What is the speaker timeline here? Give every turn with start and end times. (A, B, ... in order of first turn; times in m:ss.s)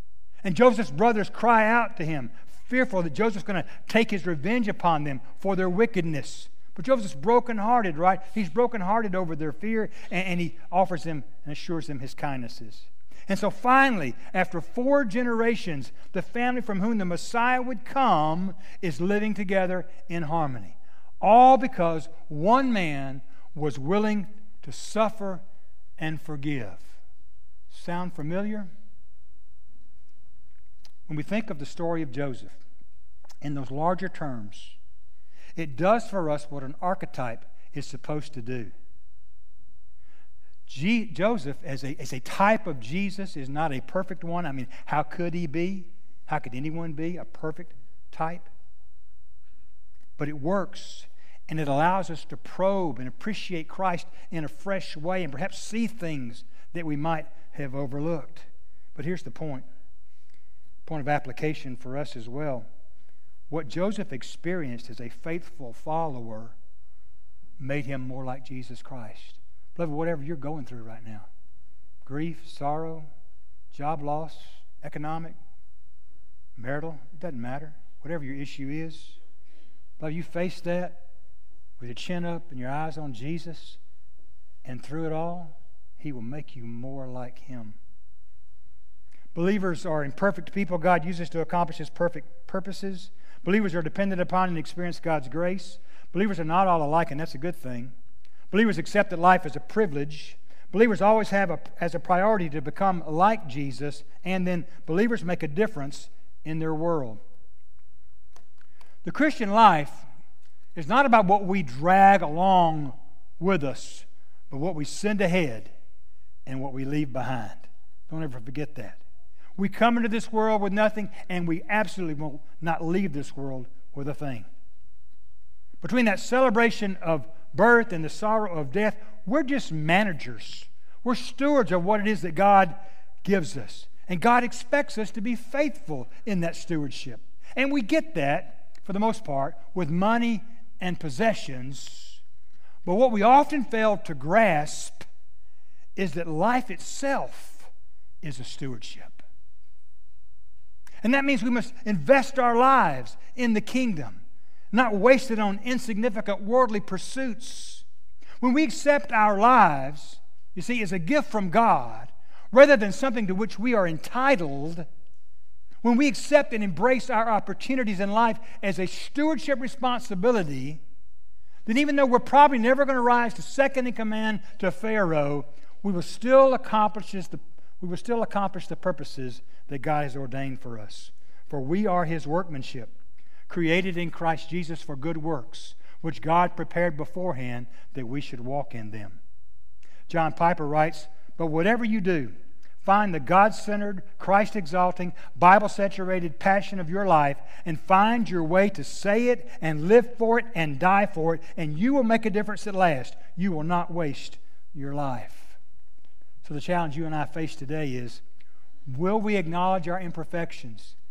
0:00.4-0:25.4 A
0:26.0-0:27.0 A
0:27.7-0:28.7 A
0:31.1-0:32.6 A
0:33.4-0:34.8 A
0:35.6-0:38.7 A
0:40.7-0:48.5 A
0:50.2-0:59.7 A
1:00.9-1:02.6 A
1:03.5-1:06.6 A
1:07.6-1:11.3 A
1:12.0-1:13.1 A
1:13.7-1:15.4 A
1:16.6-1:19.2 A
1:20.0-1:21.0 A
1:21.8-1:23.8 A
1:24.6-1:27.8 A
1:29.4-1:37.9 A
1:38.5-1:47.2 A
1:49.0-1:50.0 A
1:50.8-1:55.7 A
1:56.5-1:59.0 A
1:59.6-2:04.5 A
2:05.8-2:22.2 A
2:22.8-2:25.0 A
2:26.0-2:27.7 A
2:28.2-2:29.2 A
2:31.0-2:37.8 A
2:38.4-2:44.9 A
2:45.8-2:50.8 A
2:51.7-3:02.9 A
3:03.5-3:09.2 A
3:10.1-3:25.6 A
3:26.4-3:28.2 A
3:28.9-3:31.0 A